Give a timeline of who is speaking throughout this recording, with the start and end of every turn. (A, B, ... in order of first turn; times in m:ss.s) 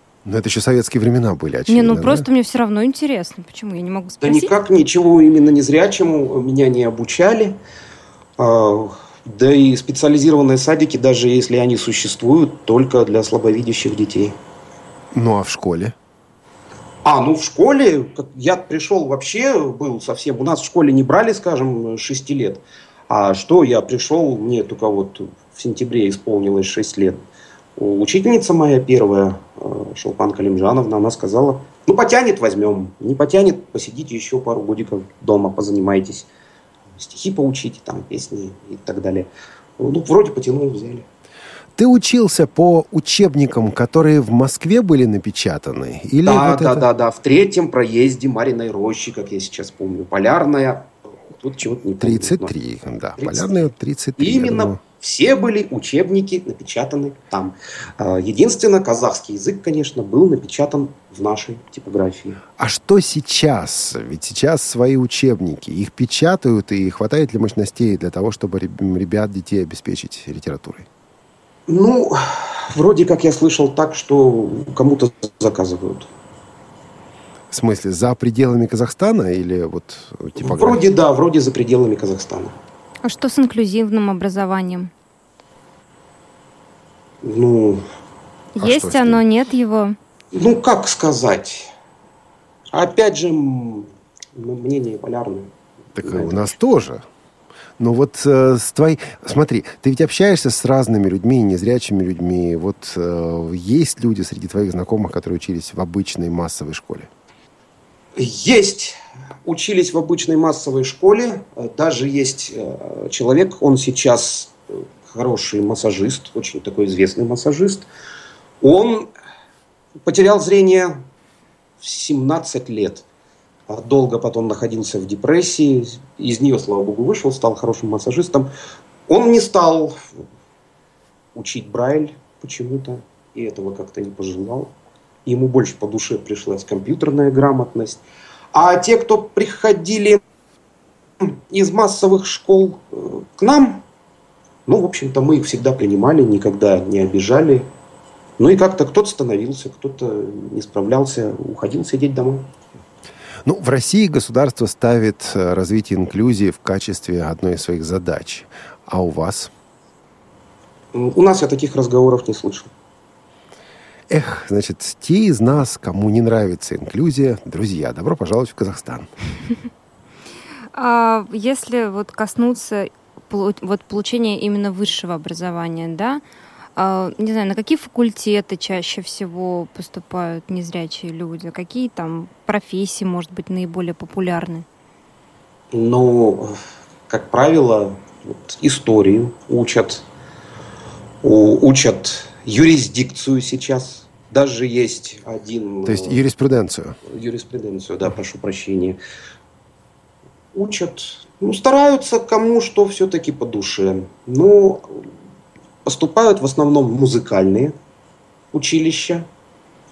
0:00.2-0:02.3 A
0:01.7-0:04.5 B
0:04.2-0:07.6 C
0:08.4-0:14.4 C
0:15.1-0:16.0 A
0:17.0-0:27.2 C
0:27.8-0:36.3 C
0:37.0-0:39.3 C
0:39.8-0:41.1 C
0:41.8-0:46.8 A
0:46.2-0:52.5 C
0:52.0-0:54.8 A
0:53.2-1:02.4 C
1:02.6-1:10.9 A
1:11.7-1:16.1 C
1:17.5-1:20.8 A
1:20.4-1:22.6 C
1:23.0-1:24.9 B
1:27.2-1:27.8 C
1:28.6-1:30.0 B
1:28.6-1:29.2 A
1:30.3-1:31.7 C
1:32.7-1:36.6 C
1:36.0-1:37.0 A
1:37.8-1:47.1 A
1:48.2-1:57.9 C
1:58.6-1:59.1 C
2:00.0-2:01.0 C
2:01.8-2:03.0 C
2:03.7-2:08.5 C
2:09.1-2:10.1 C
2:11.4-2:14.7 C
2:15.3-2:18.0 C
2:18.5-2:20.2 C
2:21.2-2:23.8 C
2:24.7-2:27.7 C
2:28.4-2:32.5 C
2:33.4-2:39.5 A
2:40.9-2:42.7 C
2:44.1-2:49.1 A
2:50.7-2:56.2 B
2:56.8-3:04.6 B
3:05.7-3:06.6 C
3:07.1-3:10.0 C
3:11.2-3:16.2 C
3:15.8-3:17.0 A
3:17.1-3:19.0 C
3:20.5-3:25.1 C
3:25.9-3:27.7 C
3:28.5-3:29.3 C